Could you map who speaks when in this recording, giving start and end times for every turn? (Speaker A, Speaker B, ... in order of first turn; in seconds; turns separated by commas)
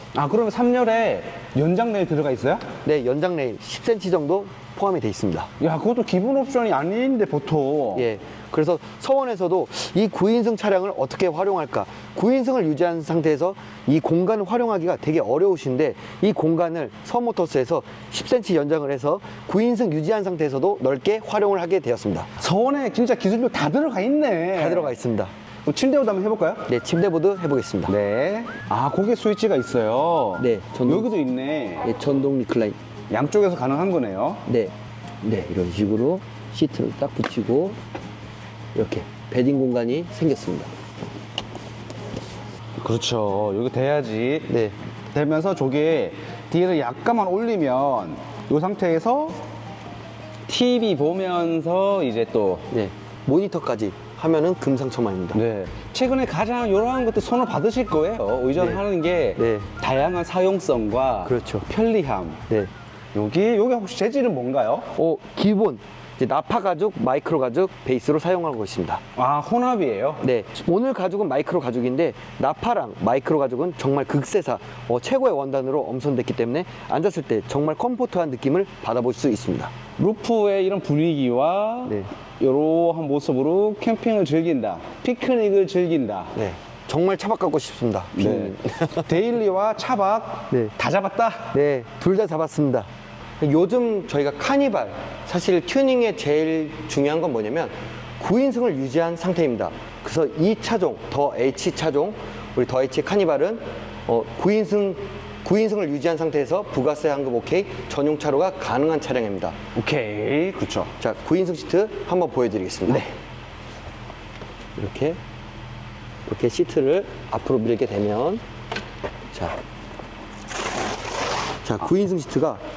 Speaker A: 0.1-2.7, Speaker B: 2.8-5.5, Speaker A: 5.6-8.1, Speaker B: 8.0-22.3, Speaker A: 22.4-24.9, Speaker B: 24.6-25.3, Speaker A: 25.7-26.7, Speaker B: 26.7-27.9, Speaker A: 27.9-31.9, Speaker B: 30.4-31.1, Speaker B: 31.8-32.8, Speaker A: 33.1-34.4, Speaker B: 34.5-37.8, Speaker B: 38.8-40.7, Speaker A: 42.8-44.6, Speaker B: 44.5-44.8, Speaker A: 45.1-49.4, Speaker A: 50.5-52.7, Speaker B: 52.7-55.4, Speaker A: 55.3-62.4, Speaker B: 59.4-59.7, Speaker B: 61.2-61.7, Speaker A: 63.1-64.9, Speaker B: 64.9-69.0, Speaker A: 69.2-70.2, Speaker B: 70.2-79.8, Speaker A: 80.0-86.3, Speaker B: 86.3-89.1, Speaker A: 88.2-91.5, Speaker B: 91.5-92.9, Speaker B: 93.4-109.6, Speaker A: 109.8-110.9, Speaker B: 111.0-113.1, Speaker A: 112.9-113.1, Speaker B: 114.8-115.2, Speaker B: 116.3-118.4, Speaker B: 121.7-122.6